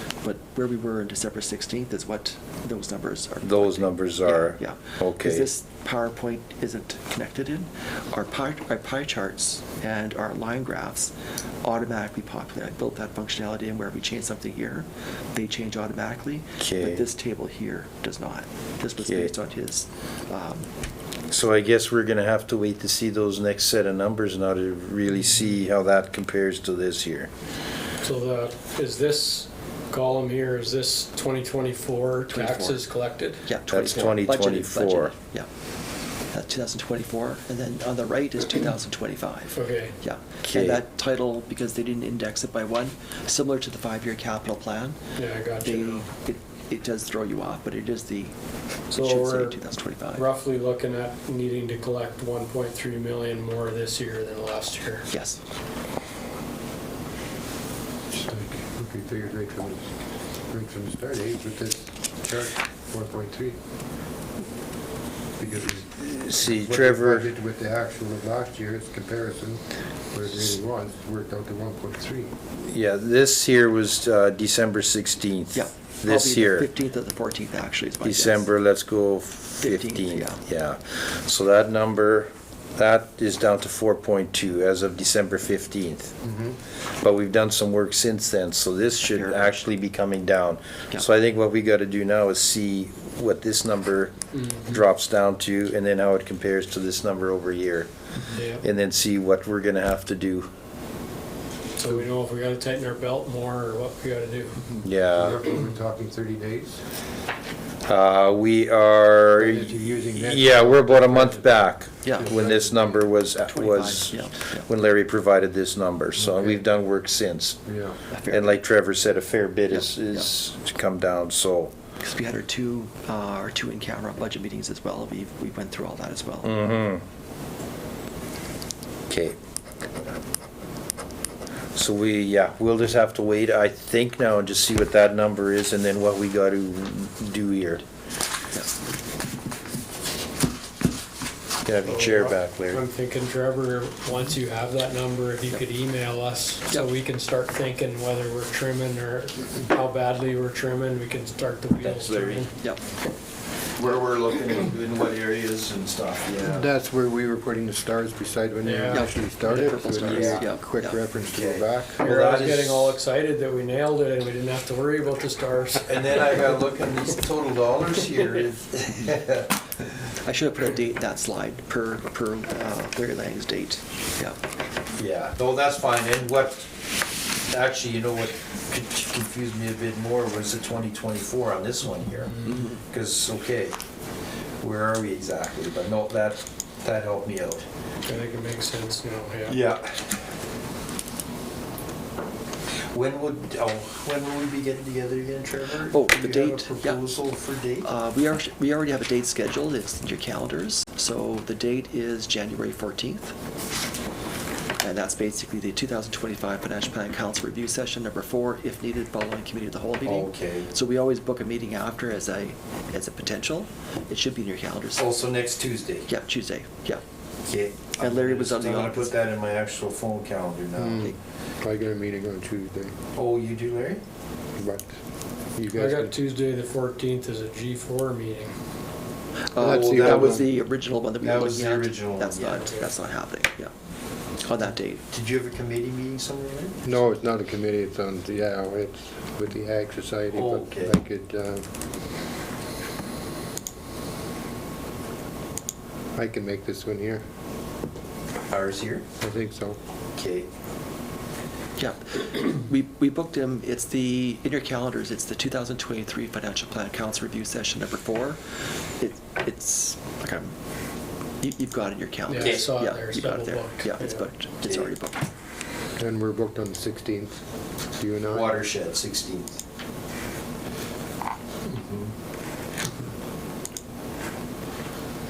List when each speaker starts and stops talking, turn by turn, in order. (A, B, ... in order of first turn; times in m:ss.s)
0:00.2-0:20.7 A
0:03.4-0:05.5 B
0:16.6-0:17.0 B
0:19.0-0:19.3 B
0:21.3-0:27.3 B
0:28.0-0:33.5 C
0:32.3-0:32.8 A
0:33.4-0:35.5 A
0:33.7-0:35.1 B
0:36.3-0:45.0 A
0:39.5-0:40.0 C
0:40.4-0:40.8 B
0:45.2-0:46.1 C
0:45.6-0:48.3 A
0:48.9-0:49.6 C
0:48.9-0:50.3 A
0:50.1-0:55.1 C
0:55.1-0:55.4 A
0:58.1-0:59.9 D
1:00.5-1:03.6 D
1:05.4-1:09.6 D
1:06.0-1:07.3 B
1:10.1-1:12.3 D
1:12.6-1:16.7 B
1:15.5-1:18.5 A
1:18.0-1:26.2 B
1:19.6-1:20.4 A
1:26.2-1:26.6 D
1:27.0-1:37.9 B
1:29.0-1:29.6 A
1:34.3-1:34.7 C
1:38.3-1:38.6 C
1:38.6-1:40.5 B
1:41.8-1:44.6 C
1:44.8-1:45.4 B
1:45.1-1:46.8 D
1:47.9-1:57.6 B
1:49.4-1:53.1 D
1:52.0-1:52.3 A
1:53.4-1:54.7 A
1:56.2-1:56.6 D
1:57.7-1:58.0 D
1:58.1-1:58.6 A
1:58.3-2:01.7 B
1:59.7-2:00.3 A
2:02.0-2:06.7 A
2:06.4-2:07.0 B
2:09.1-2:09.4 B
2:11.7-2:17.8 B
2:21.6-2:22.8 B
2:21.8-2:32.5 C
2:31.8-2:32.5 B
2:33.8-2:36.7 B
2:36.4-2:42.0 D
2:38.6-2:39.1 C
2:38.9-2:41.0 A
2:40.0-2:40.5 B
2:41.3-2:43.0 B
2:42.0-2:45.9 C
2:45.8-2:49.5 B
2:50.2-2:54.4 A
2:54.9-2:56.7 B
2:57.5-3:03.8 B
3:02.4-3:02.8 A
3:04.6-3:07.6 B
3:08.0-3:09.6 C
3:09.5-3:10.1 B
3:12.9-3:17.9 B
3:15.9-3:17.0 A
3:17.8-3:23.4 A
3:24.8-3:35.1 A
3:30.0-3:30.7 B
3:35.0-3:36.1 B
3:36.1-3:37.0 A
3:37.4-3:41.1 B
3:38.0-3:39.2 A
3:40.8-3:43.0 D
3:43.1-3:44.0 B
3:44.6-3:44.9 D
3:45.6-3:46.2 D
3:45.7-3:48.5 C
3:49.5-3:53.7 A
3:49.6-3:50.5 D
3:49.6-3:50.5 B
3:51.2-3:52.8 B
3:54.4-3:55.0 A
3:55.1-3:56.8 B
3:56.8-4:01.7 D
4:00.3-4:00.9 B
4:06.2-4:07.2 D
4:08.5-4:09.0 B
4:09.2-4:09.8 D
4:10.2-4:10.5 B
4:11.8-4:18.4 A
4:19.0-4:20.6 A
4:21.4-4:25.3 A
4:22.3-4:24.1 C
4:22.4-4:22.7 B
4:26.0-4:27.4 D
4:28.0-4:28.6 D
4:28.3-4:29.6 B
4:31.7-4:32.1 B